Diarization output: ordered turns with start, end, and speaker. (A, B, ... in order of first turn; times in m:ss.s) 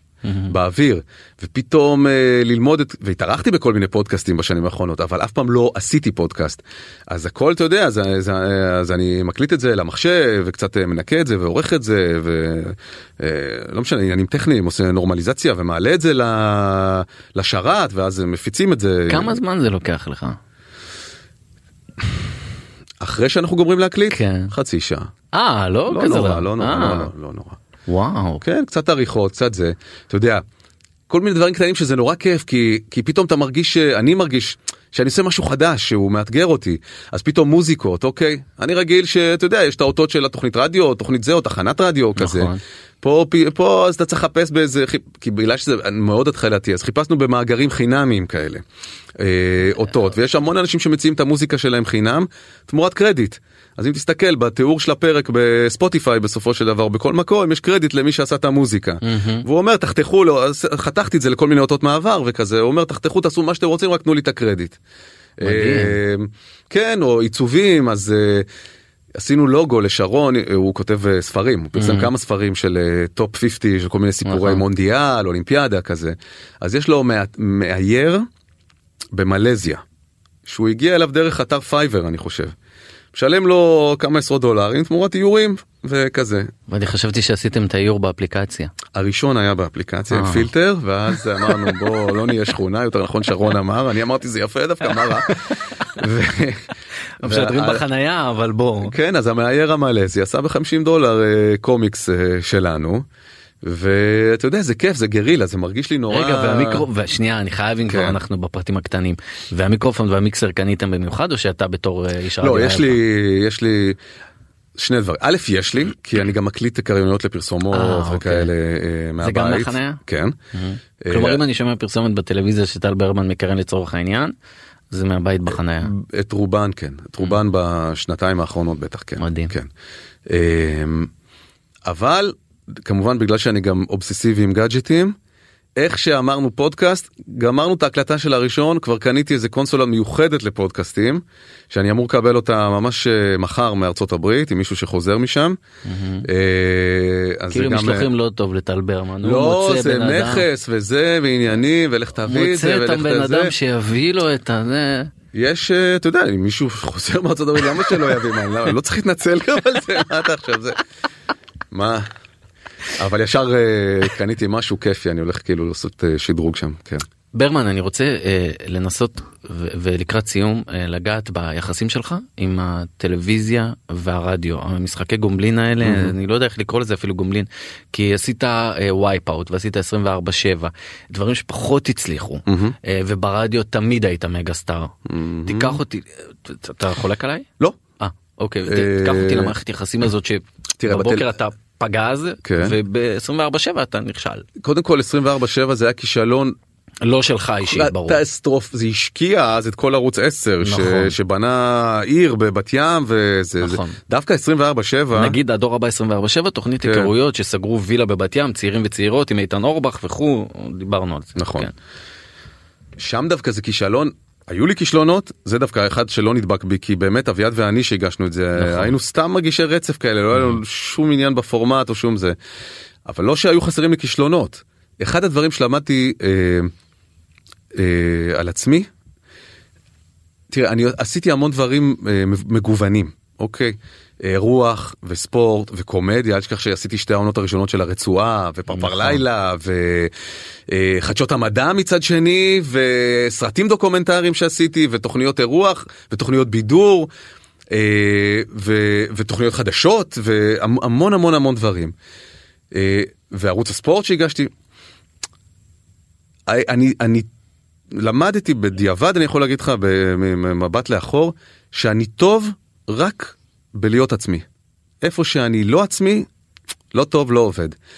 0:00.2-0:00.5 A
0:00.5-0:19.4 B
0:19.1-0:20.4 A
0:23.0-0:25.1 B
0:24.1-0:24.5 A
0:25.3-0:27.1 A
0:25.9-0:27.6 B
0:27.9-0:28.4 A
0:28.4-0:30.4 B
0:31.1-0:48.6 B
0:42.2-0:42.6 A
0:49.2-1:04.8 B
0:59.0-0:59.4 A
1:05.4-1:08.5 B
1:05.4-1:06.0 A
1:09.2-1:18.3 B
1:11.8-1:12.1 A
1:14.3-1:14.6 A
1:19.1-1:19.8 B
1:20.5-1:22.6 B
1:23.1-1:26.5 B
1:26.7-1:28.7 A
1:28.9-1:36.7 B
1:30.1-1:30.5 A
1:35.3-1:35.7 A
1:37.2-1:38.9 A
1:37.2-1:37.8 B
1:38.8-1:43.1 B
1:43.6-1:46.9 B
1:46.1-1:53.0 A
1:47.9-1:48.2 B
1:52.4-1:54.0 B
1:54.8-2:00.4 B
1:57.7-1:58.5 A
1:59.2-2:00.0 A
2:00.5-2:04.3 A
2:01.0-2:01.4 B
2:04.9-2:05.9 A
2:05.8-2:09.7 B
2:09.2-2:09.5 A
2:10.3-2:11.1 B
2:11.8-2:15.2 B
2:15.8-2:25.6 B
2:25.8-2:26.3 A
2:26.3-2:28.1 B
2:27.5-2:30.5 A
2:29.2-2:33.5 B
2:32.3-2:35.1 A
2:35.3-2:40.8 B
2:41.7-2:42.1 B
2:42.9-2:47.0 B
2:47.4-3:07.5 A
2:55.8-2:56.1 B
3:02.5-3:02.8 B
3:05.1-3:05.8 B
3:08.0-3:14.5 A
3:08.7-3:09.6 B
3:10.8-3:11.4 B
3:12.4-3:12.8 B
3:14.6-3:16.6 B
3:17.0-3:18.2 A
3:17.6-3:25.4 B
3:20.6-3:21.2 A
3:23.6-3:24.0 A
3:25.1-3:31.7 A
3:26.8-3:27.1 B
3:31.4-3:31.7 B
3:33.0-3:42.4 B
3:38.6-3:38.9 A
3:43.1-3:46.7 B
3:47.8-3:48.9 B
3:50.5-4:00.1 B
3:58.7-3:59.2 A
4:00.7-4:07.1 B
4:07.7-4:11.9 B
4:12.7-4:14.5 B
4:16.5-4:17.3 B
4:17.9-4:24.5 B
4:25.0-4:26.3 B
4:26.9-4:27.8 B